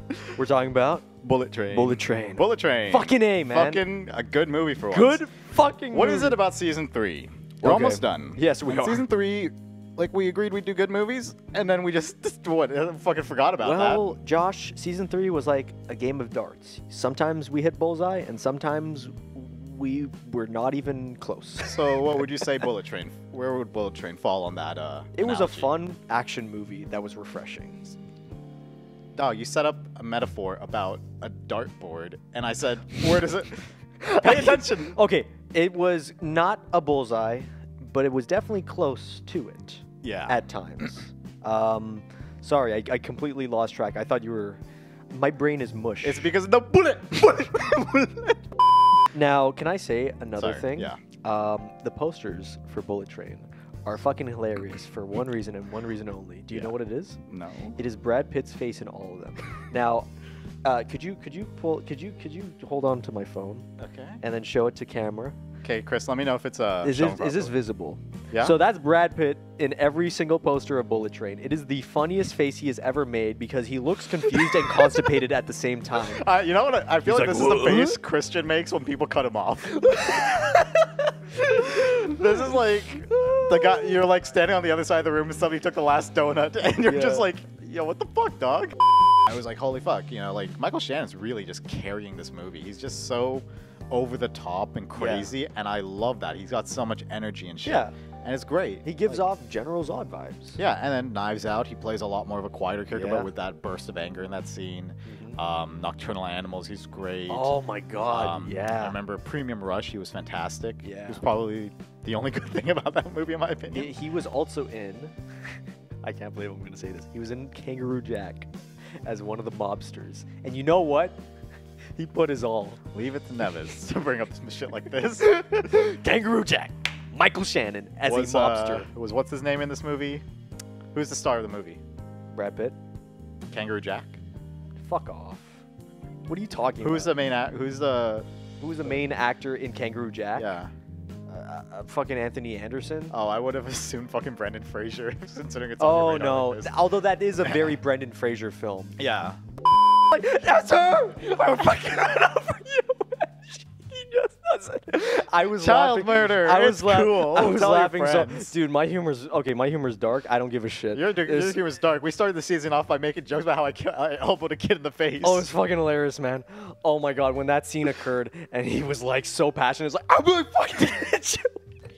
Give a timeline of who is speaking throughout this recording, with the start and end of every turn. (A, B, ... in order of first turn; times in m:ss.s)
0:00.3-0:01.1 A
0:01.2-0:05.2 B
0:01.7-0:03.8 A
0:04.9-0:06.4 A
0:05.9-0:14.2 B
0:07.6-0:09.0 A
0:13.6-0:21.9 A
0:21.6-0:25.8 B
0:25.2-0:28.0 A
0:29.2-0:33.6 B
0:34.0-0:44.6 A
0:34.1-0:35.0 B
0:40.0-0:40.9 B
0:45.1-0:46.3 A
0:46.0-0:48.3 B
0:49.1-0:57.2 A
0:50.4-0:51.0 B
0:57.3-0:57.8 B
0:57.8-1:00.1 A
1:00.6-1:03.6 A
1:03.8-1:04.2 B
1:04.2-1:05.4 A
1:05.6-1:07.5 B
1:06.8-1:16.2 A
1:08.3-1:08.6 B
1:16.0-1:20.4 B
1:17.0-1:18.0 A
1:19.8-1:22.2 A
1:21.5-1:39.2 B
1:23.1-1:23.9 A
1:26.8-1:27.3 A
1:35.0-1:35.3 A
1:37.6-1:37.9 A
1:38.8-1:40.6 A
1:40.6-1:47.5 B
1:42.9-1:43.3 A
1:45.0-1:45.4 A
1:47.3-1:49.0 A
1:48.0-1:53.9 B
1:50.8-1:51.2 A
1:53.7-1:55.1 A
1:56.0-1:58.5 A
1:59.0-2:01.2 A
2:02.0-2:02.8 A
2:02.9-2:05.4 B
2:05.2-2:08.9 A
2:08.0-2:10.2 B
2:10.9-2:11.8 B
2:12.3-2:12.8 A
2:13.5-2:14.2 B
2:14.8-2:15.6 A
2:16.3-2:17.1 A
2:16.8-2:18.2 B
2:18.6-2:20.5 A
2:20.4-2:20.7 B
2:21.3-2:23.1 A
2:23.1-2:27.8 B
2:25.8-2:29.0 A
2:29.0-2:29.4 B
2:29.9-2:41.6 A
2:35.5-2:38.5 B
2:40.9-2:45.5 B
2:45.2-2:51.6 A